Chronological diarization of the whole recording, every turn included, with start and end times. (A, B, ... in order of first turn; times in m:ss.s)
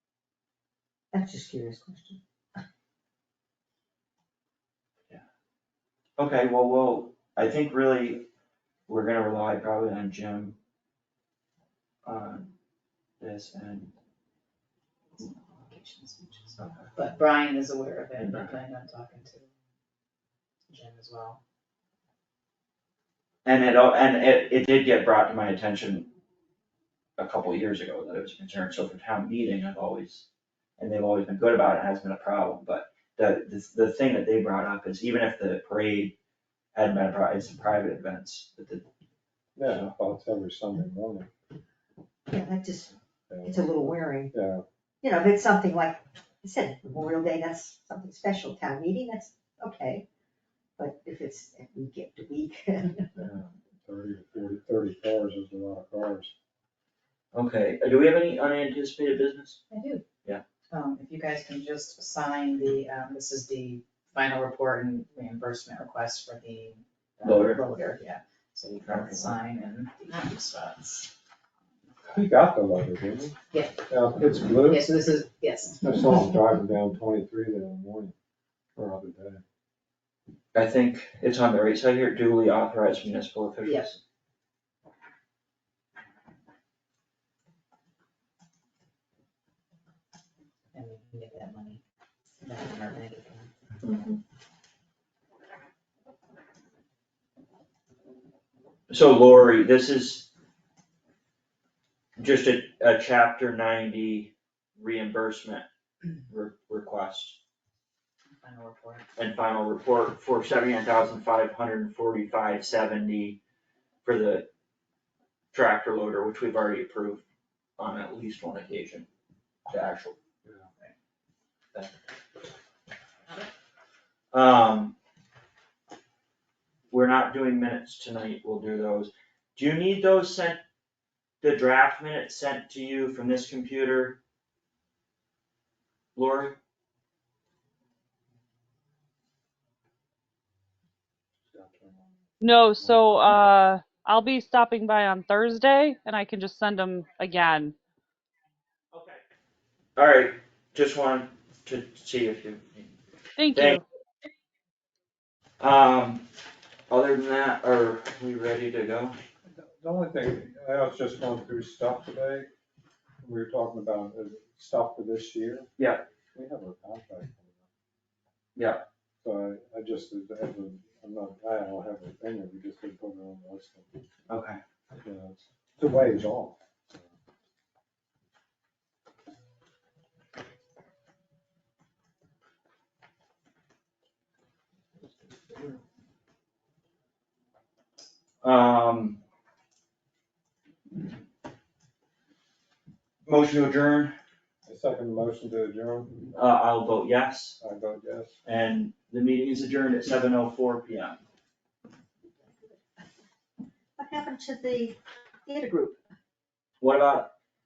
0:01.1-0:02.2 A
0:06.2-0:08.3 B
0:08.9-0:10.6 B
0:12.0-0:12.5 B
0:13.2-0:13.9 B
0:15.2-0:19.5 C
0:16.6-0:16.9 B
0:18.2-0:18.5 B
0:20.7-0:21.4 C
0:23.4-0:26.1 B
0:27.2-0:30.3 B
0:30.8-0:36.2 B
0:36.8-0:38.8 B
0:39.6-0:41.3 D
0:39.6-0:39.9 B
0:42.3-0:42.9 A
0:43.3-0:43.7 D
0:43.4-0:44.3 A
0:44.3-0:44.6 D
0:45.0-0:50.1 A
0:50.8-0:53.2 A
0:53.2-0:56.3 D
0:57.3-0:59.6 B
0:59.7-1:00.0 C
1:00.7-1:11.1 C
1:07.2-1:07.7 B
1:08.8-1:09.4 B
1:12.1-1:13.4 D
1:13.5-1:13.8 C
1:13.9-1:14.9 D
1:14.6-1:16.2 C
1:15.8-1:18.2 D
1:18.8-1:19.4 D
1:20.6-1:24.0 B
1:23.6-1:23.9 C
1:30.7-1:31.8 C
1:32.4-1:33.5 C
1:33.8-1:34.2 B
1:38.9-1:40.3 B
1:42.2-1:45.7 B
1:46.3-1:47.4 B
1:48.3-1:49.1 C
1:49.2-1:53.4 B
1:54.0-1:54.5 B
1:55.5-1:57.2 B
1:57.8-1:59.1 B
1:59.7-2:00.2 B
2:04.3-2:05.0 B
2:06.9-2:10.6 B
2:11.4-2:14.2 B
2:16.2-2:16.6 B
2:21.5-2:22.2 D
2:22.4-2:27.8 E
2:22.8-2:23.0 D
2:28.9-2:29.2 B
2:30.0-2:32.9 B
2:33.4-2:33.8 E
2:33.5-2:33.8 B
2:35.6-2:36.3 B
2:36.9-2:39.2 B
2:39.6-2:42.5 D
2:43.2-2:45.7 D
2:45.8-2:46.0 B
2:46.3-2:47.6 D
2:48.6-2:48.8 B
2:49.2-2:54.0 D
2:54.3-2:54.6 B
2:54.9-2:57.1 D
3:08.4-3:09.2 B
3:13.3-3:14.1 B
3:14.7-3:16.2 D
3:16.3-3:17.6 B
3:17.6-3:18.4 D
3:18.4-3:21.2 B
3:22.4-3:22.8 A
3:24.0-3:26.0 A
3:26.8-3:27.3 B